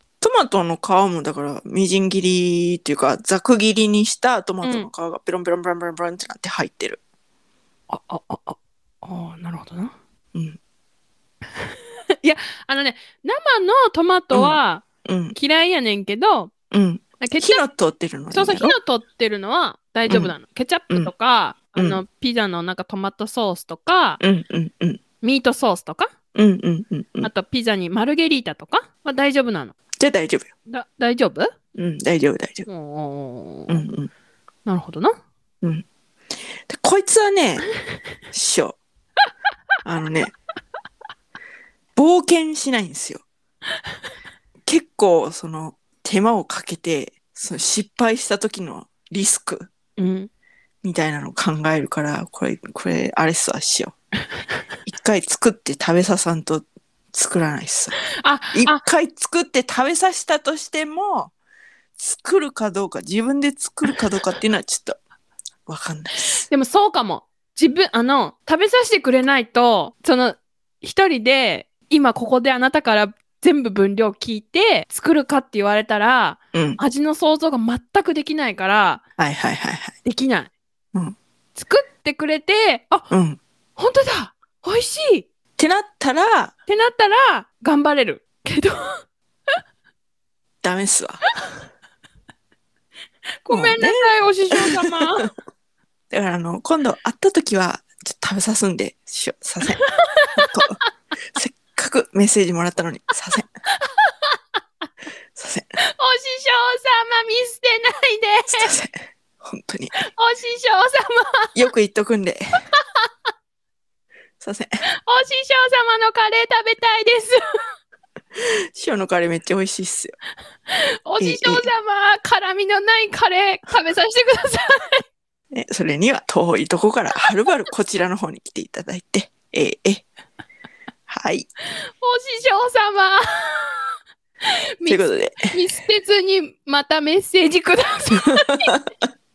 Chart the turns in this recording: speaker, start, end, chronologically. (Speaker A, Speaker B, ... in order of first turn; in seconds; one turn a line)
Speaker A: 0.2-7.0
Speaker B: 4.6-4.9
Speaker B: 7.9-9.9
Speaker B: 11.7-16.5
Speaker A: 14.3-15.3
Speaker A: 16.7-18.7
Speaker B: 17.2-17.6
Speaker B: 18.3-24.2
Speaker A: 20.1-20.3
Speaker A: 21.7-22.0
Speaker A: 24.2-25.0
Speaker B: 25.2-26.1
Speaker A: 26.3-27.3
Speaker B: 27.2-29.7
Speaker A: 30.0-30.5
Speaker B: 30.7-31.5
Speaker A: 31.8-32.7
Speaker B: 32.7-33.8
Speaker A: 33.7-34.1
Speaker B: 34.6-35.2
Speaker A: 36.7-37.7
Speaker A: 38.3-38.8
Speaker A: 39.8-40.3
Speaker A: 42.0-43.2
Speaker A: 44.6-49.7
Speaker B: 50.0-50.3
Speaker A: 50.8-54.0
Speaker A: 54.8-58.0
Speaker B: 58.1-58.8
Speaker A: 58.5-61.3
Speaker A: 62.0-65.0
Speaker A: 65.7-66.4
Speaker B: 66.2-79.0
Speaker A: 76.5-76.8
Speaker A: 79.2-79.9
Speaker B: 80.0-80.5
Speaker B: 81.5-83.1
Speaker A: 83.1-83.4
Speaker B: 83.8-85.3
Speaker A: 85.6-86.5
Speaker B: 86.7-89.0
Speaker A: 90.6-91.3
Speaker B: 93.4-95.3
Speaker A: 93.5-95.1
Speaker A: 96.1-99.8
Speaker B: 99.8-100.7
Speaker A: 100.4-100.8
Speaker A: 101.3-103.5
Speaker B: 103.8-104.3
Speaker A: 105.3-105.7
Speaker B: 105.9-108.7
Speaker A: 108.5-110.0
Speaker B: 109.9-111.5
Speaker A: 111.5-112.6
Speaker A: 114.4-114.8
Speaker B: 115.0-117.4
Speaker A: 118.8-120.2
Speaker B: 120.7-125.0
Speaker A: 121.2-121.7
Speaker A: 125.5-130.0
Speaker A: 131.1-131.5
Speaker B: 132.0-138.7
Speaker A: 134.8-135.5